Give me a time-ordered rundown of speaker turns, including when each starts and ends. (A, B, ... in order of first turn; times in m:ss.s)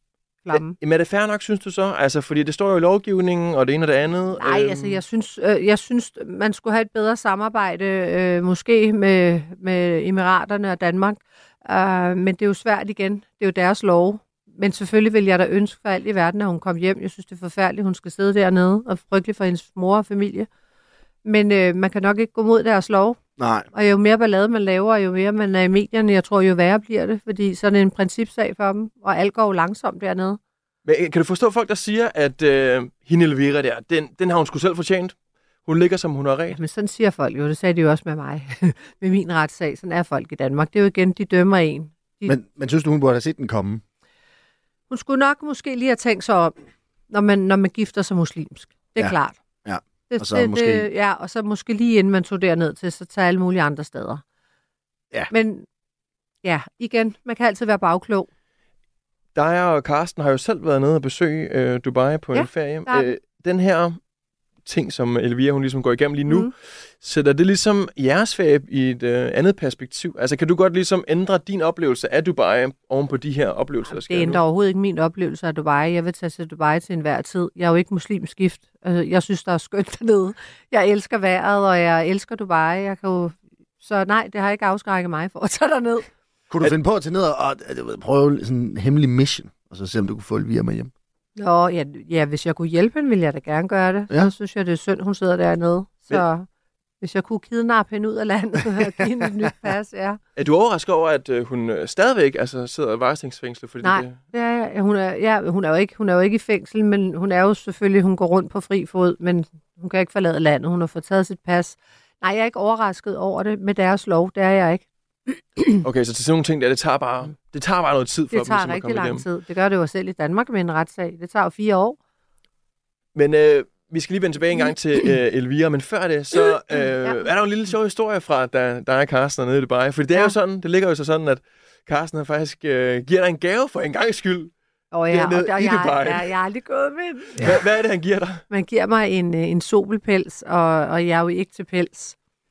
0:00.4-0:00.7 A
0:00.5-0:05.0 B
0:04.4-0:20.5 A
0:21.2-0:23.2 A
0:23.4-0:23.7 C
0:23.7-0:30.4 A
0:30.8-0:36.6 B
0:36.5-0:42.3 A
0:42.2-0:43.8 C
0:44.9-0:46.5 A
0:47.1-0:49.4 A
0:49.0-0:50.9 C
0:50.1-0:54.2 A
0:55.3-0:55.7 A
0:56.4-0:58.3 A
0:59.3-1:04.0 B
1:02.3-1:03.2 A
1:04.6-1:14.4 B
1:13.9-1:26.1 A
1:26.5-1:30.9 C
1:31.4-1:36.5 A
1:37.0-1:40.2 A
1:38.8-1:39.3 C
1:40.4-1:44.2 B
1:43.8-1:54.8 A
1:55.8-1:59.2 B
1:58.3-2:02.0 A
2:03.1-2:14.5 B
2:14.9-2:17.6 A
2:15.1-2:16.3 B
2:17.4-2:18.4 B
2:18.5-2:22.2 A